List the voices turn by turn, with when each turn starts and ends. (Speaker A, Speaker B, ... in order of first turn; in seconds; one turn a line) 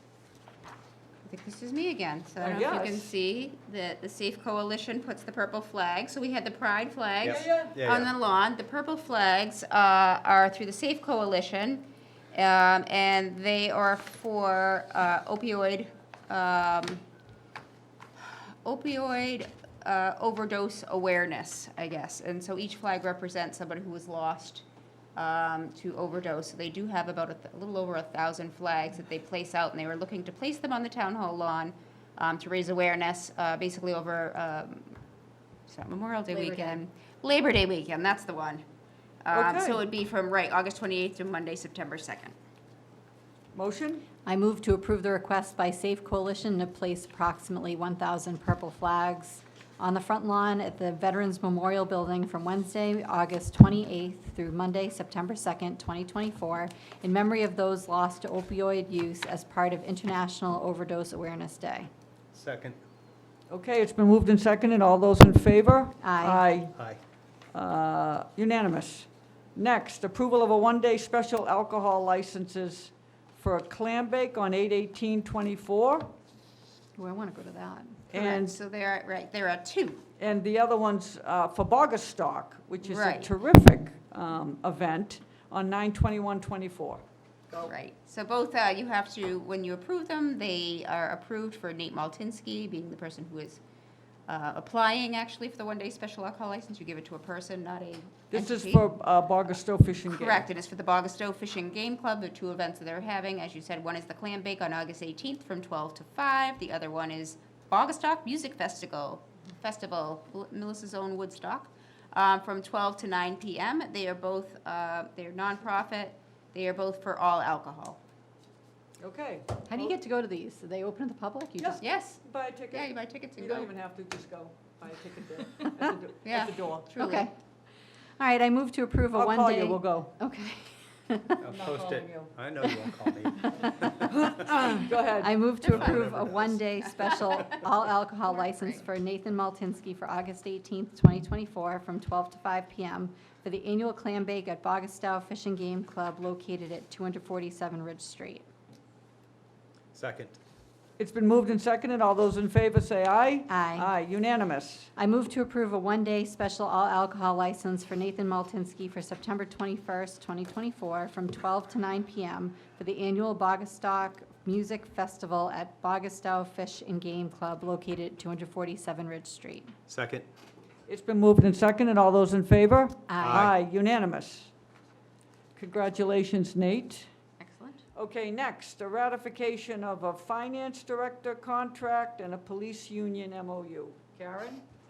Speaker A: 1.2-17.0
Speaker B: 2.4-3.1
Speaker C: 7.2-8.1
Speaker B: 7.2-7.7
Speaker A: 18.2-24.6
Speaker A: 25.1-35.0
Speaker A: 35.7-38.6
Speaker D: 36.3-36.8
Speaker A: 39.2-42.3
Speaker B: 39.3-39.8
Speaker B: 43.5-44.0
Speaker D: 44.2-61.9
Speaker C: 62.3-62.8
Speaker B: 63.5-66.7
Speaker D: 66.0-66.4
Speaker B: 67.5-76.1
Speaker D: 77.0-78.0
Speaker B: 78.1-78.6
Speaker A: 78.1-80.0
Speaker B: 80.2-87.7
Speaker A: 82.8-83.3
Speaker A: 87.6-93.6
Speaker A: 94.3-98.9
Speaker B: 98.3-100.4
Speaker A: 100.1-118.0
Speaker B: 119.0-119.9
Speaker D: 119.7-121.8
Speaker B: 121.6-126.9
Speaker A: 121.8-123.7
Speaker A: 126.2-127.3
Speaker D: 127.0-127.3
Speaker D: 128.2-131.4
Speaker B: 129.1-130.1
Speaker C: 131.4-134.5
Speaker B: 131.5-132.3
Speaker B: 134.1-135.4
Speaker D: 135.1-148.4
Speaker C: 135.6-136.6
Speaker A: 135.7-135.9
Speaker A: 137.2-137.4
Speaker A: 138.4-138.7
Speaker C: 149.9-150.3
Speaker B: 151.0-154.9
Speaker D: 153.5-153.9
Speaker D: 155.0-169.7
Speaker C: 169.9-170.3
Speaker B: 170.9-174.5
Speaker D: 173.1-173.5
Speaker C: 173.2-173.5
Speaker B: 175.6-177.1
Speaker D: 177.4-177.8
Speaker B: 177.9-184.6